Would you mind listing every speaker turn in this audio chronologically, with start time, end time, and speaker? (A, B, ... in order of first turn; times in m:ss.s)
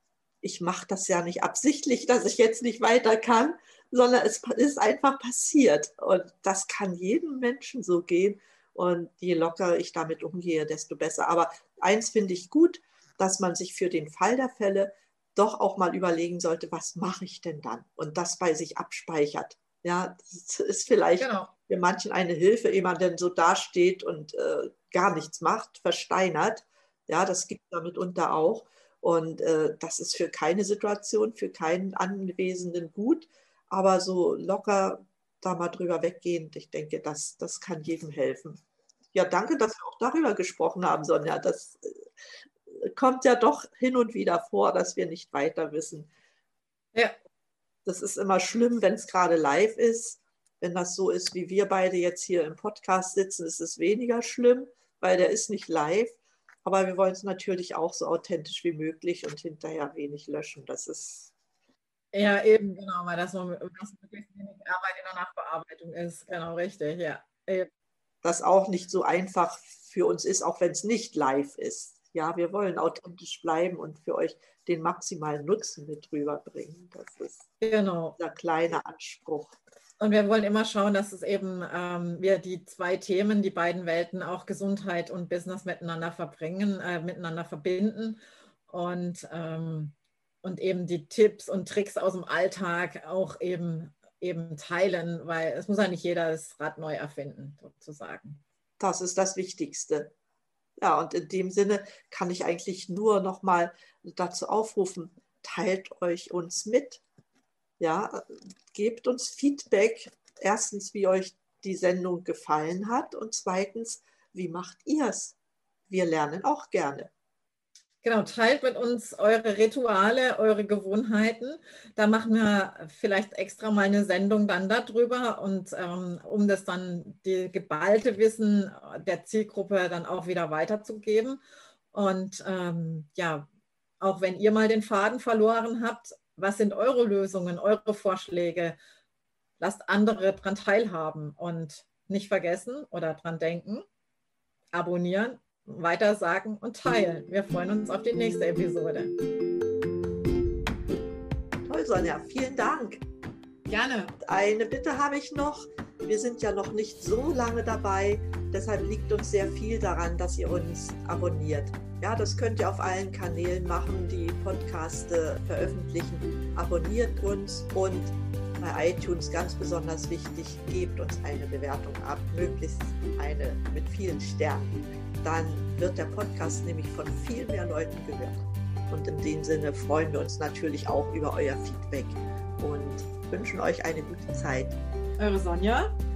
0:00.4-0:38.6 A
0:21.2-0:21.5 B
0:39.1-0:41.9 A
0:42.8-0:46.1 A
0:47.8-1:01.3 A
1:02.1-1:07.7 B
1:08.2-1:17.5 A
1:17.6-1:18.2 B
1:18.2-1:19.6 A
1:20.0-1:38.4 B
1:38.8-1:40.1 A
1:40.8-1:47.0 A
1:47.8-1:55.4 A
1:55.9-1:57.1 A
1:58.0-2:11.4 B
2:11.9-2:13.5 B
2:14.0-2:18.8 B
2:19.6-2:23.8 B
2:24.7-2:29.1 B
2:31.7-2:33.0 A
2:33.7-2:34.2 B
2:34.2-3:04.8 A
3:05.2-3:05.9 B